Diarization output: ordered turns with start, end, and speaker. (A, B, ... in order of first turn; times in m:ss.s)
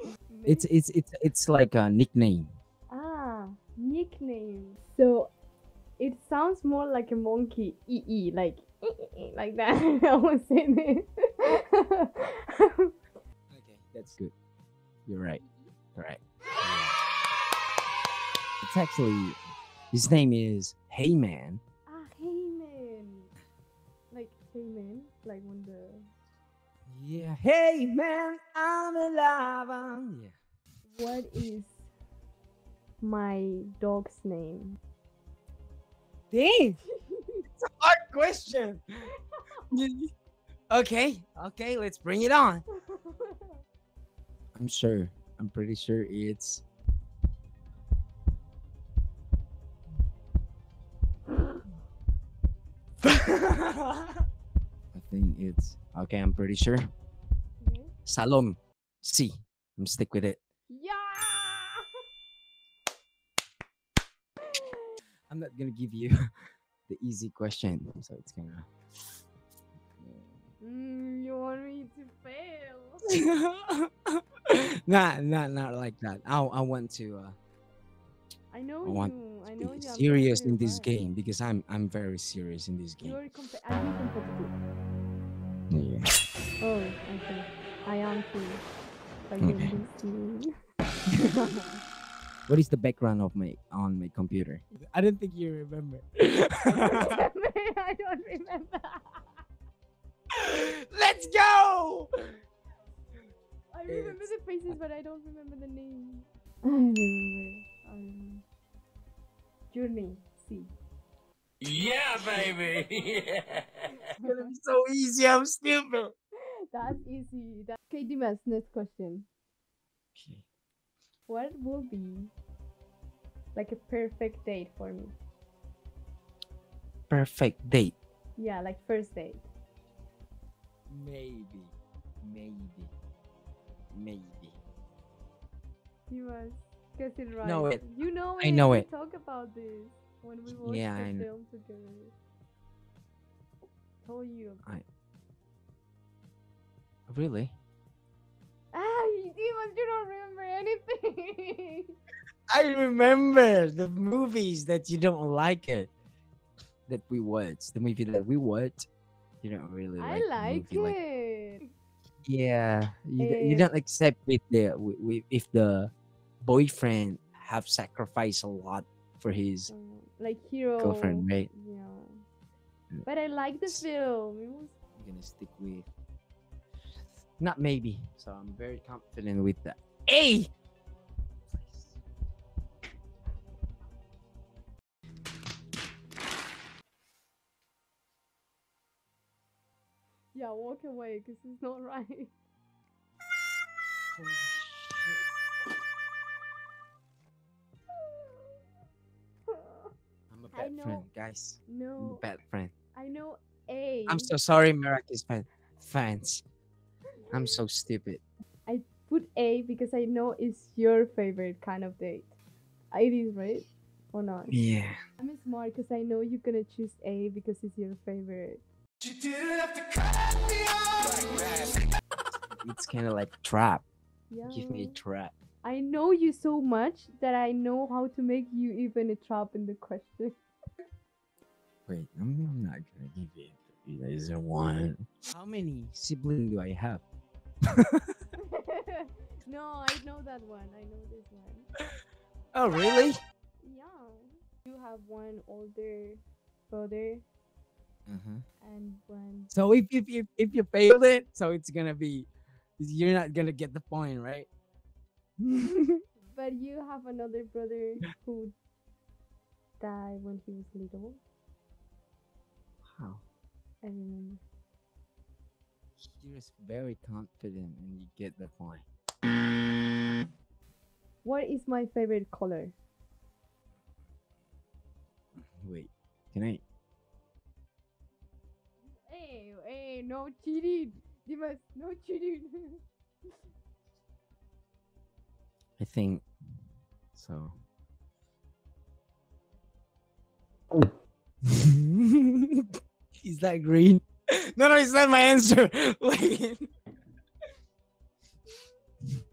0:00.3-0:00.7 A
0:00.4-0:02.5 B
0:02.9-0:05.3 A
0:06.0-0:12.9 A
0:13.5-0:14.3 B
0:15.1-0:15.4 B
0:15.4-0:15.7 A
0:16.0-0:17.0 B
0:18.6-0:19.4 B
0:19.9-0:21.6 B
0:21.9-0:23.3 A
0:24.1-0:26.1 A
0:26.9-0:30.3 B
0:30.9-0:31.8 A
0:33.0-0:34.8 A
0:36.3-0:36.8 B
0:36.8-0:37.4 A
0:37.6-0:38.8 B
0:39.3-0:39.6 A
0:39.7-0:40.1 B
0:40.7-0:42.6 B
0:42.8-0:43.6 A
0:44.5-0:46.6 B
0:53.0-0:54.1 B
0:54.9-0:56.8 B
0:57.6-0:57.9 A
0:58.0-1:00.4 B
1:00.7-1:01.9 A
1:04.4-1:05.0 A
1:05.3-1:06.3 B
1:06.9-1:08.7 B
1:10.0-1:10.3 B
1:10.6-1:13.1 A
1:13.0-1:17.4 B
1:18.5-1:20.9 A
1:18.8-1:23.2 B
1:23.0-1:24.6 A
1:25.7-1:26.1 B
1:26.6-1:28.6 A
1:29.3-1:30.5 A
1:29.4-1:29.7 B
1:31.1-1:31.6 B
1:32.5-1:37.2 B
1:36.6-1:39.3 A
1:40.3-1:42.1 B
1:43.7-1:48.4 A
1:43.9-1:44.3 B
1:49.7-1:50.7 A
1:51.6-1:53.3 C
1:54.2-1:54.5 A
1:54.2-1:56.1 B
1:56.4-1:59.3 A
2:00.1-2:00.4 B
2:01.3-2:02.3 A
2:03.5-2:05.1 A
2:07.1-2:08.0 B
2:08.4-2:09.4 A
2:10.9-2:12.9 B
2:13.9-2:14.6 B
2:16.1-2:22.1 A
2:17.4-2:17.8 B
2:18.4-2:18.8 B
2:20.5-2:21.3 B
2:24.0-2:24.6 A
2:27.1-2:27.5 B
2:28.7-2:31.9 A
2:32.5-2:35.9 B
2:36.9-2:38.9 B
2:39.4-2:41.0 B
2:40.0-2:41.7 A
2:42.2-2:49.7 B
2:43.2-2:43.7 A
2:49.7-2:52.2 A
2:50.8-2:51.5 B
2:53.0-2:54.7 A
2:55.0-2:55.9 B
2:57.4-3:00.5 B
3:01.5-3:02.0 B
3:10.3-3:12.3 A
3:14.1-3:15.2 B
3:17.9-3:18.6 A
3:19.5-3:19.9 A
3:20.3-3:22.7 B
3:20.5-3:21.0 A
3:21.7-3:22.2 A
3:22.9-3:24.3 A
3:24.1-3:26.4 B
3:27.3-3:27.6 A
3:27.3-3:28.2 B
3:28.6-3:32.3 A
3:32.9-3:34.5 A
3:34.5-3:35.0 B
3:35.2-3:38.6 A
3:39.0-3:41.8 C
3:42.5-3:43.8 B
3:44.3-3:45.0 A
3:44.4-3:45.3 B
3:45.6-3:50.4 A
3:51.9-3:57.0 B
3:57.8-3:58.0 B
3:58.4-4:01.7 A
4:02.5-4:03.2 B
4:03.6-4:07.2 A
4:08.1-4:08.4 B
4:08.6-4:09.5 A
4:09.5-4:14.5 B
4:15.4-4:16.0 B
4:16.3-4:18.6 A
4:19.8-4:21.2 A
4:22.9-4:23.2 B
4:23.8-4:24.4 A
4:26.0-4:28.8 B
4:31.2-4:32.7 A
4:35.4-4:36.6 B
4:38.8-4:42.8 A
4:45.8-4:46.2 B
4:47.1-4:47.5 B
4:51.4-4:52.7 B
4:53.2-4:56.7 B